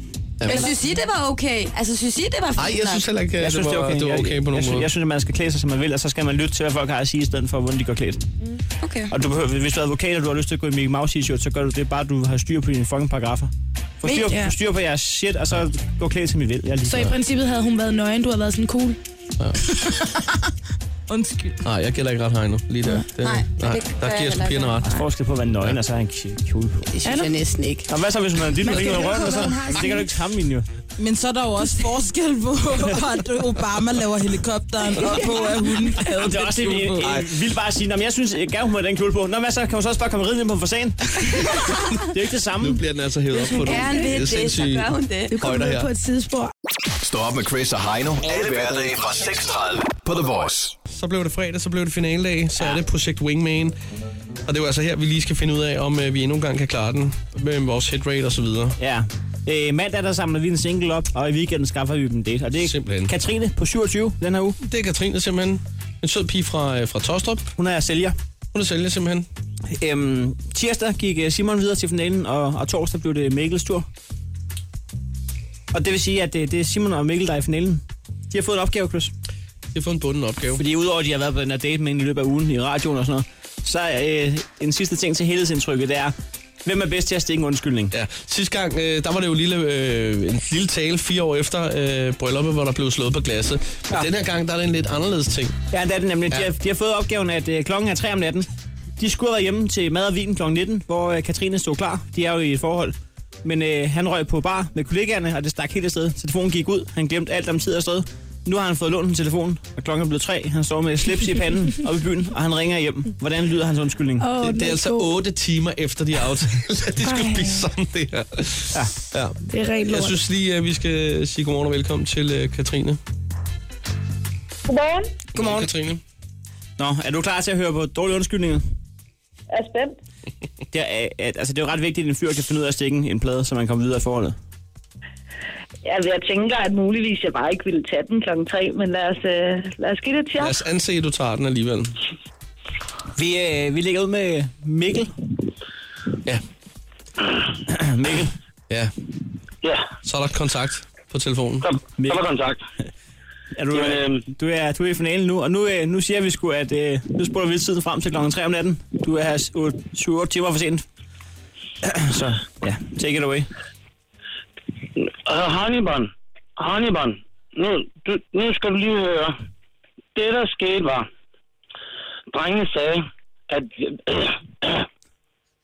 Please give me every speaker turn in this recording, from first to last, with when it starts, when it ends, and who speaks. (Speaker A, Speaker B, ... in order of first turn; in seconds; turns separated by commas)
Speaker A: 0.4-0.7, Speaker B: 0.4-3.0, Speaker C: 0.5-0.8, Speaker A: 2.6-4.9, Speaker D: 3.4-8.2, Speaker B: 8.8-9.1, Speaker D: 9.1-17.1, Speaker C: 14.1-14.5, Speaker C: 16.9-19.0, Speaker E: 19.9-20.2, Speaker E: 21.1-21.6, Speaker A: 21.6-24.9, Speaker B: 23.2-24.8, Speaker D: 24.8-26.8, Speaker B: 26.9-27.9, Speaker C: 27.0-27.3, Speaker D: 27.9-30.6, Speaker C: 28.6-30.0, Speaker E: 28.8-29.6, Speaker E: 31.0-37.2, Speaker D: 36.2-42.8, Speaker A: 42.6-45.9, Speaker C: 43.4-44.0, Speaker B: 43.5-45.3, Speaker C: 45.3-46.5, Speaker F: 47.0-50.7, Speaker A: 50.9-53.7, Speaker A: 54.5-58.8, Speaker D: 58.8-64.6, Speaker A: 62.6-63.1, Speaker A: 64.6-67.5, Speaker D: 67.6-68.2, Speaker A: 68.5-69.3, Speaker D: 69.7-73.9, Speaker D: 75.7-79.1, Speaker A: 79.7-80.6, Speaker D: 80.5-86.1, Speaker D: 86.6-88.0, Speaker A: 87.9-95.5, Speaker D: 95.7-98.5, Speaker D: 99.0-114.3, Speaker C: 114.2-115.1, Speaker A: 114.4-123.0, Speaker C: 117.0-117.7, Speaker C: 119.5-120.2, Speaker D: 125.3-125.7, Speaker A: 125.3-126.0, Speaker D: 126.8-128.6, Speaker G: 129.6-129.9, Speaker D: 130.7-134.4, Speaker G: 135.8-140.5, Speaker A: 140.4-141.9, Speaker D: 143.1-145.1, Speaker D: 147.7-148.3, Speaker H: 149.6-149.9, Speaker A: 150.0-151.7, Speaker H: 151.6-152.6, Speaker D: 152.0-152.2, Speaker D: 153.6-160.8, Speaker H: 153.7-154.2, Speaker D: 161.8-163.5, Speaker H: 165.1-169.3, Speaker H: 170.1-171.1, Speaker H: 172.3-174.8